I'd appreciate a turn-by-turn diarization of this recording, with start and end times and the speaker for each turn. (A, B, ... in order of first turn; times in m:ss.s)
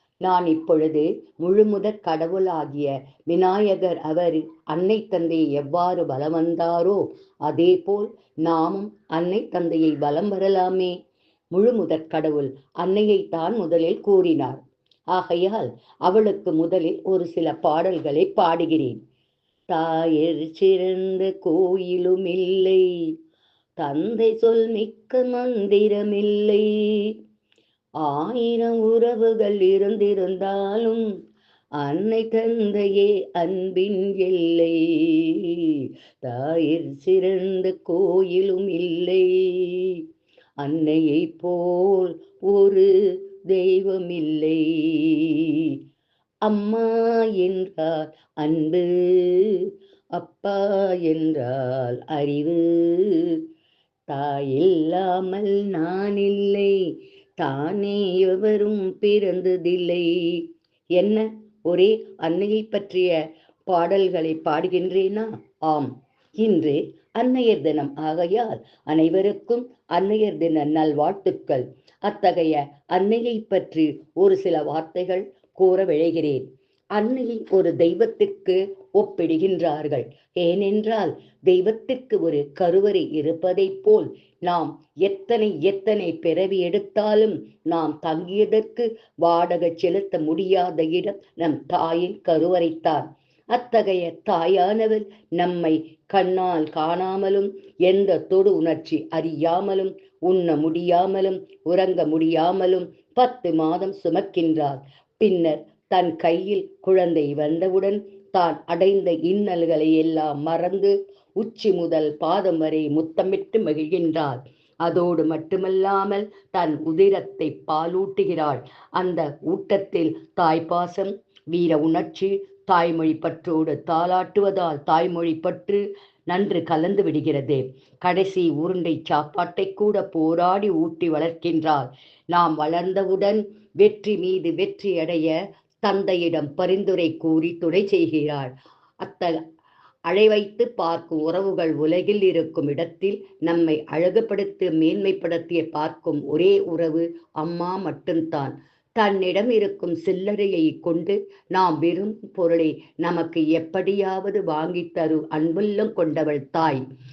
0:00.2-0:11.0 A
0:11.5-0:14.6 A
0:15.1-0:19.0 A
0:19.7-0:22.9 A
0:23.8-0:27.2 A
0:28.0-0:31.0 A
0:31.8-0:40.0 A
0:40.6-0:45.8 A
0:46.4-0:53.4 A
0:54.1-0:56.8 A
0:57.4-1:00.4 A
1:01.0-2:19.4 A
2:20.1-2:36.8 A